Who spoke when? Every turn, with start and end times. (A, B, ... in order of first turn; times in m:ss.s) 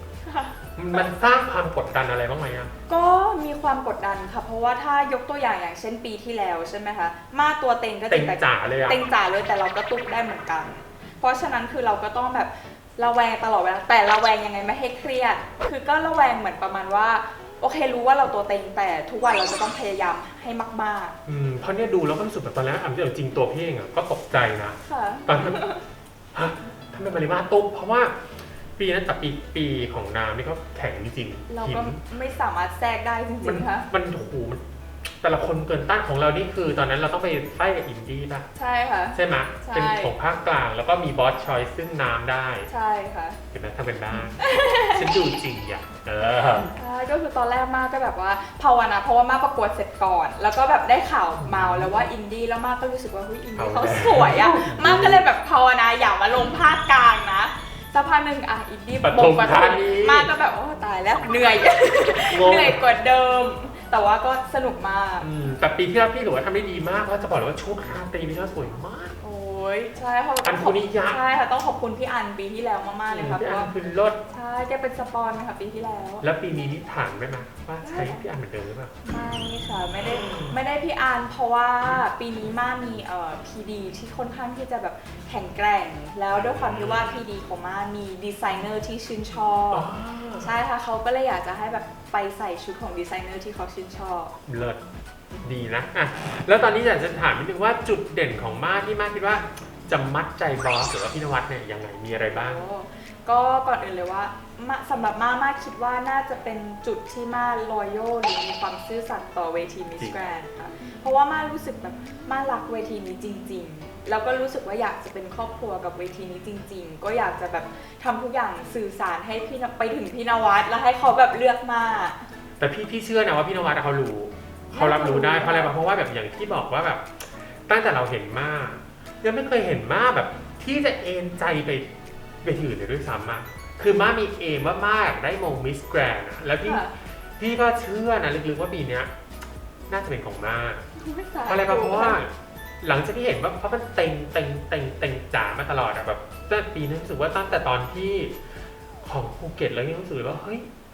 0:00.2-0:00.6 A
0:00.8-0:02.7 B
0:02.9-0:21.2 A
0:08.1-0:09.0 B
0:21.3-0:25.6 B
0:24.8-0:25.8 A
0:26.3-0:32.0 B
0:31.5-0:33.9 A
0:33.4-0:34.6 B
0:35.2-0:38.5 B
0:38.6-0:40.2 A
0:39.1-0:42.7 B
0:42.7-0:43.4 A
0:43.5-0:46.7 B
0:44.4-0:45.1 A
0:46.8-1:05.3 A
0:51.4-0:51.9 B
0:53.6-0:55.2 B
0:59.0-1:00.3 B
1:02.3-1:02.8 B
1:05.2-1:09.2 B
1:09.2-1:13.7 A
1:10.4-1:11.2 B
1:13.1-1:14.2 B
1:14.3-1:16.2 A
1:16.2-1:18.9 B
1:17.8-1:18.3 A
1:19.0-1:34.4 A
1:20.1-1:20.6 B
1:26.3-1:27.2 B
1:29.7-1:30.5 B
1:34.5-1:34.8 B
1:35.4-1:42.6 B
1:42.3-2:02.3 A
2:02.6-2:11.9 B
2:04.7-2:05.8 A
2:12.4-2:16.8 B
2:16.6-2:17.0 A
2:17.4-2:19.1 B
2:19.9-2:20.8 B
2:21.0-2:22.2 A
2:21.5-2:28.4 B
2:29.0-2:30.7 B